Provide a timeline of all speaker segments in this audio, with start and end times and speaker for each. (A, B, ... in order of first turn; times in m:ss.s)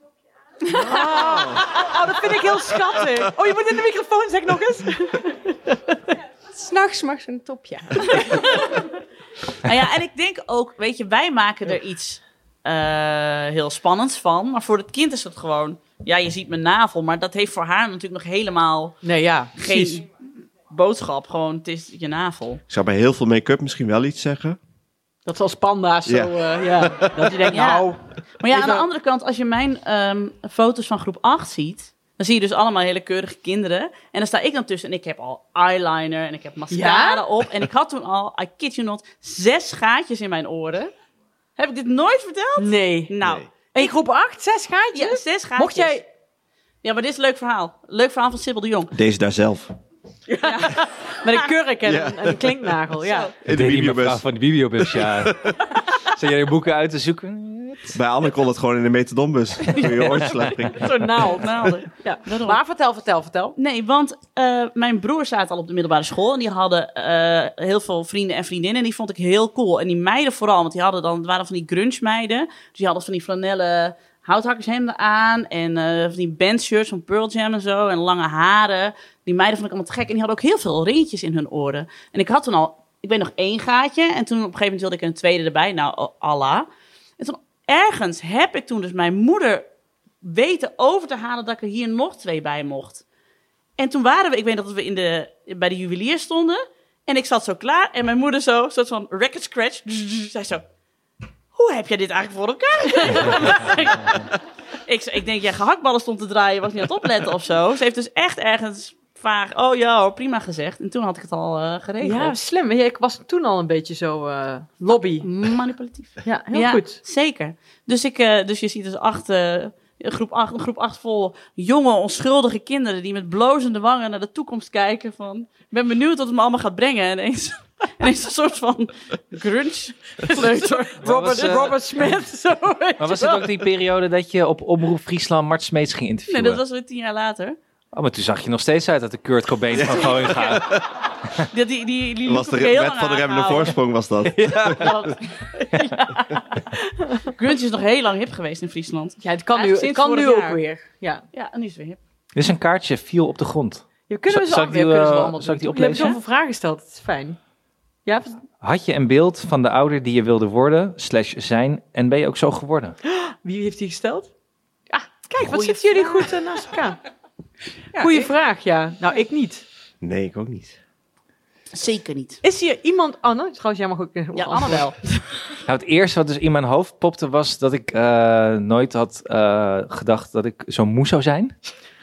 0:00.7-0:01.0 A
0:00.7-0:05.4 B
0:06.5-0:08.6 C
0:08.1-0:08.6 A
0:09.6-0:19.0 A
0:19.0-0:20.0 B
0:19.6-0:20.1 A
0:20.7-0:22.6 A
0:22.7-0:24.6 D
0:25.3-0:28.9 B
0:26.1-0:27.4 D
0:27.5-0:40.9 A
0:36.7-0:37.2 B
0:41.6-0:44.0 A
0:42.6-0:43.1 B
0:43.2-0:43.5 D
0:43.7-0:46.0 B
0:45.0-0:46.0 A
0:46.8-0:48.9 A
0:48.9-0:49.7 D
0:50.3-0:53.4 B
0:50.4-0:51.5 A
0:51.8-0:52.7 D
0:53.0-0:53.3 A
0:53.4-0:54.3 D
0:53.5-0:55.4 E
0:54.8-0:55.6 D
0:56.1-0:58.0 E
0:57.9-1:01.2 D
1:00.7-1:03.6 B
1:01.4-1:02.6 A
1:03.6-1:26.7 A
1:27.2-1:29.6 A
1:30.2-1:33.0 A
1:33.8-1:40.6 A
1:41.6-1:44.3 A
1:43.0-1:43.7 B
1:44.9-1:52.4 A
1:52.0-1:55.3 B
1:55.2-2:11.0 A
1:56.2-1:57.0 B
2:10.3-2:13.6 B
2:11.0-2:12.3 E
2:13.0-2:16.6 E
2:16.3-2:17.6 A
2:17.9-2:20.7 E
2:19.8-2:20.8 D
2:21.5-2:23.8 A
2:22.3-2:24.9 D
2:24.3-2:25.0 E
2:24.8-2:25.2 A
2:25.7-2:26.4 A
2:27.3-2:30.6 A
2:29.2-2:31.2 B
2:31.3-2:32.0 A
2:32.4-2:36.2 E
2:34.1-2:37.4 B
2:38.1-2:38.4 B
2:38.6-2:43.0 E
2:43.1-2:44.3 B
2:44.9-2:47.0 B
2:45.4-2:46.4 A
2:48.0-2:49.6 B
2:50.0-2:50.8 D
2:51.7-2:52.4 A
2:52.4-2:55.0 B
2:54.4-2:55.2 A
2:55.7-3:01.5 E